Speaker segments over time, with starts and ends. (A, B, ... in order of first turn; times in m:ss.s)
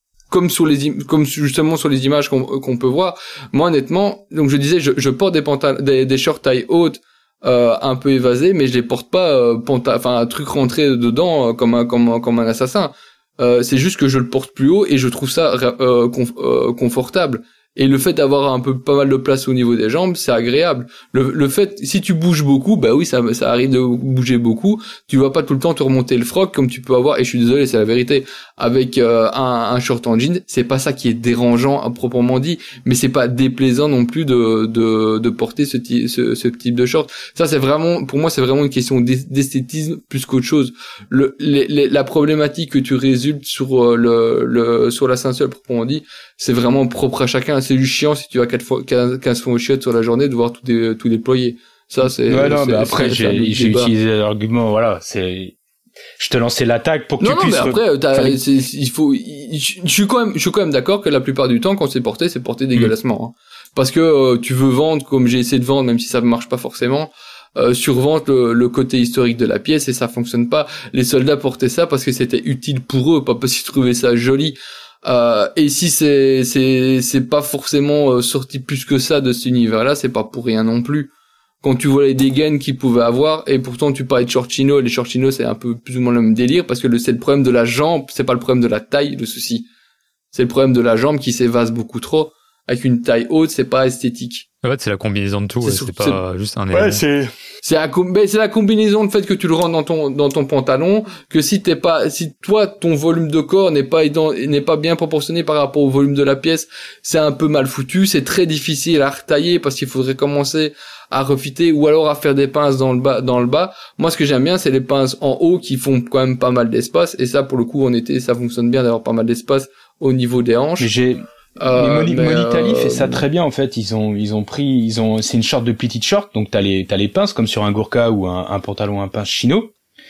0:00.3-0:53.9 A
0:52.3-0:55.6 B
0:56.2-0:58.4 B
0:57.2-1:29.7 A
1:30.3-1:34.5 A
1:34.6-1:37.0 C
1:35.6-1:36.2 A
1:36.7-1:37.3 B
1:37.6-2:00.9 A
2:00.8-2:01.2 B
2:01.6-2:03.2 A
2:01.8-2:09.7 B